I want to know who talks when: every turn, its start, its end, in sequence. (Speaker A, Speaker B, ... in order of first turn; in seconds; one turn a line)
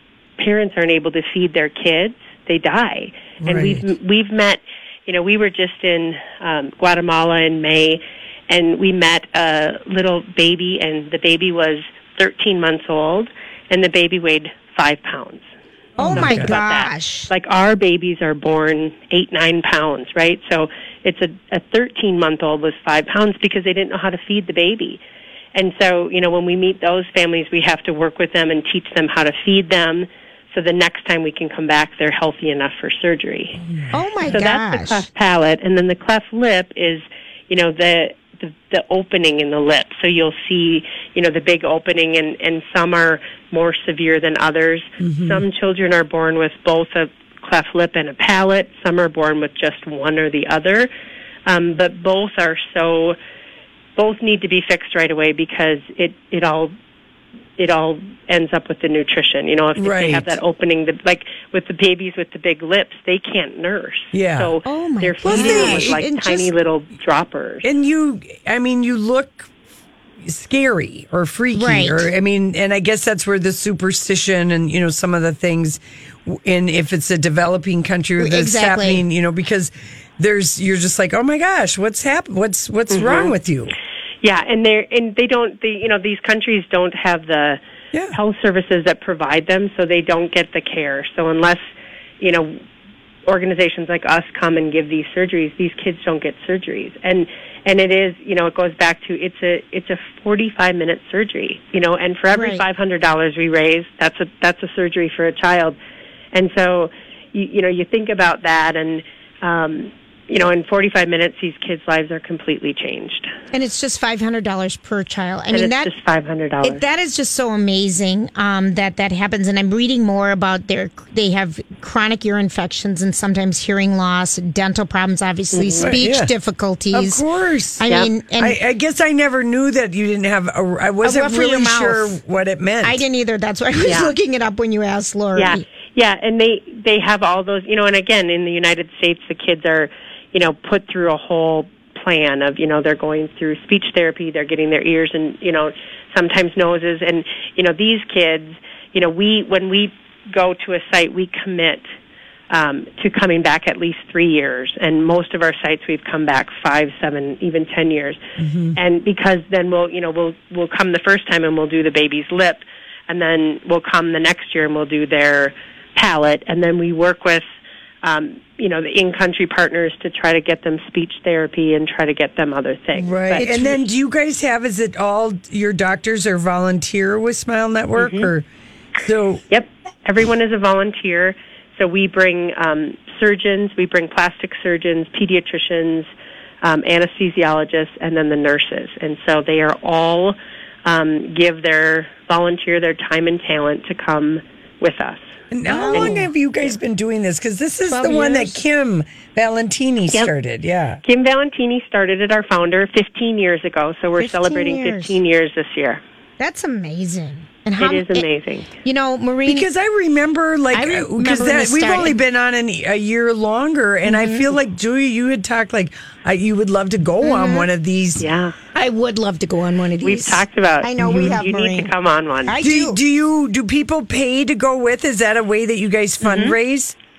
Speaker A: 0.4-15.5
Speaker B: 3.4-3.9
Speaker B: 16.0-16.6
Speaker C: 16.0-17.3
Speaker A: 16.1-25.0
Speaker A: 25.5-33.6
Speaker B: 33.7-34.4
Speaker C: 33.9-35.1
Speaker A: 34.2-50.9
Speaker B: 45.0-45.4
Speaker A: 51.5-53.2
Speaker A: 54.0-56.7
Speaker A: 57.6-67.7
Speaker B: 59.8-60.4
Speaker B: 64.1-64.5
Speaker C: 64.7-66.5
Speaker B: 65.2-66.0
Speaker B: 67.6-69.5
Speaker B: 70.2-83.7
Speaker C: 71.5-72.1
Speaker C: 78.2-79.0
Speaker A: 82.9-83.3
Speaker A: 84.2-87.6
Speaker B: 87.9-88.2
Speaker A: 88.1-92.6
Speaker A: 93.3-105.8
Speaker C: 102.3-102.7
Speaker A: 106.3-113.3
Speaker C: 113.5-115.9
Speaker A: 115.5-116.8
Speaker C: 116.6-127.2
Speaker A: 125.5-126.0
Speaker B: 125.8-126.3
Speaker B: 126.9-127.9
Speaker C: 127.8-128.6
Speaker B: 128.4-133.0
Speaker C: 131.0-132.2
Speaker C: 132.8-135.7
Speaker A: 133.8-134.1
Speaker A: 135.3-151.8
Speaker A: 152.5-158.2
Speaker B: 158.4-158.8
Speaker A: 158.8-167.5
Speaker A: 168.0-173.5
Speaker B: 172.9-178.4
Speaker C: 173.3-173.8
Speaker A: 178.0-178.3
Speaker B: 179.0-179.4
Speaker A: 179.5-186.1
Speaker A: 186.6-195.3
Speaker B: 195.5-201.0
Speaker C: 195.7-196.3
Speaker A: 195.9-196.2
Speaker C: 197.9-198.6
Speaker A: 201.0-206.0
Speaker C: 204.2-205.2
Speaker C: 206.4-208.3
Speaker A: 207.8-208.7
Speaker C: 208.8-209.7
Speaker B: 209.5-218.3
Speaker C: 210.7-212.2
Speaker C: 214.1-214.6
Speaker C: 217.2-217.7
Speaker A: 218.2-218.6
Speaker C: 218.8-221.9
Speaker A: 220.0-222.6
Speaker B: 221.0-221.4
Speaker C: 222.4-223.0
Speaker B: 222.6-226.9
Speaker A: 226.2-226.6